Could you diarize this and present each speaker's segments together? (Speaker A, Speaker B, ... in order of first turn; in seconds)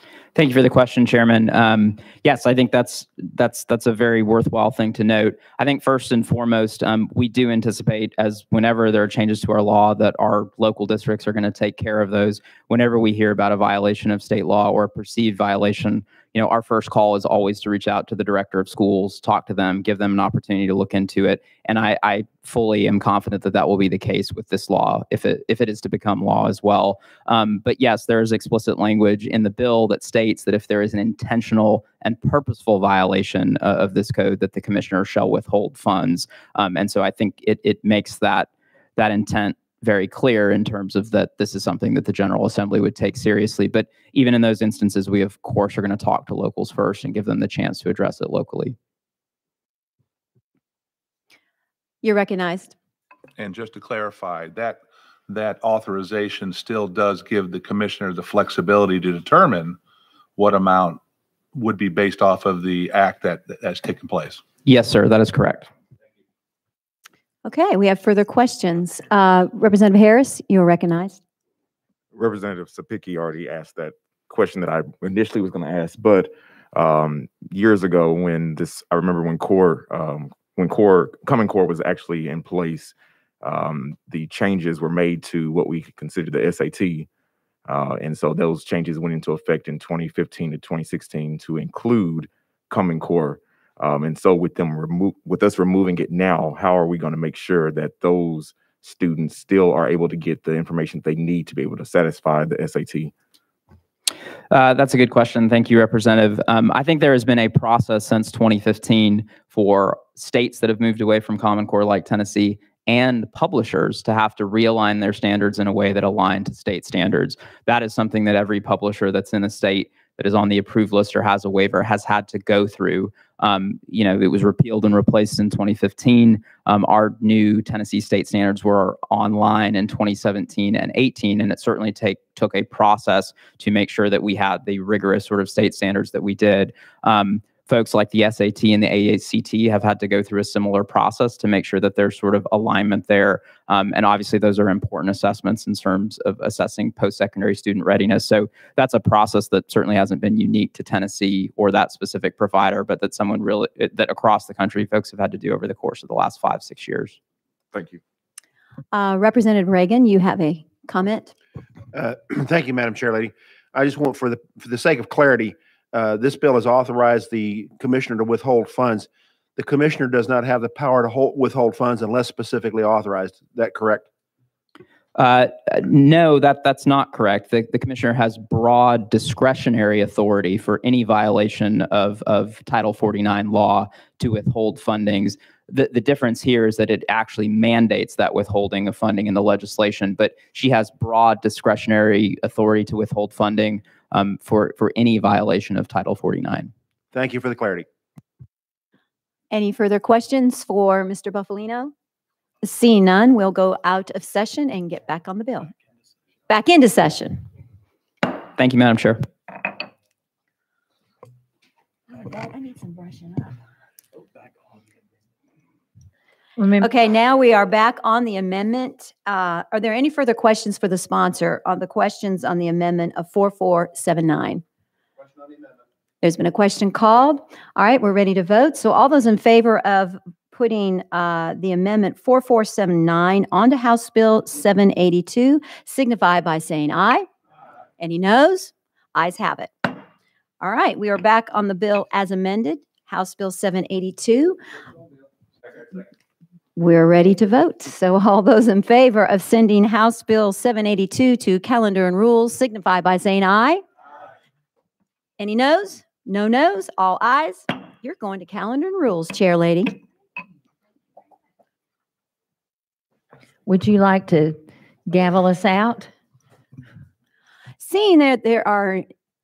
Speaker A: 0.3-48.8, 64.6-65.7, 104.5-157.2, 175.1-196.7, 208.6-209.3
Speaker B: 52.0-52.8, 67.5-71.2, 158.9-161.3, 199.5-201.9, 202.6-205.7, 206.5-207.5, 212.1-213.6, 216.8-224.6, 226.2-237.3, 238.0-240.0, 240.6-244.6, 246.8-253.8, 255.4-260.0, 267.8-269.1
Speaker C: 53.4-59.8, 60.4-61.0, 61.5-64.4
Speaker D: 72.1-87.1, 87.7-103.1
Speaker E: 157.7-158.0, 161.9-174.1, 197.1-197.9
Speaker F: 216.6-216.9, 263.7-266.1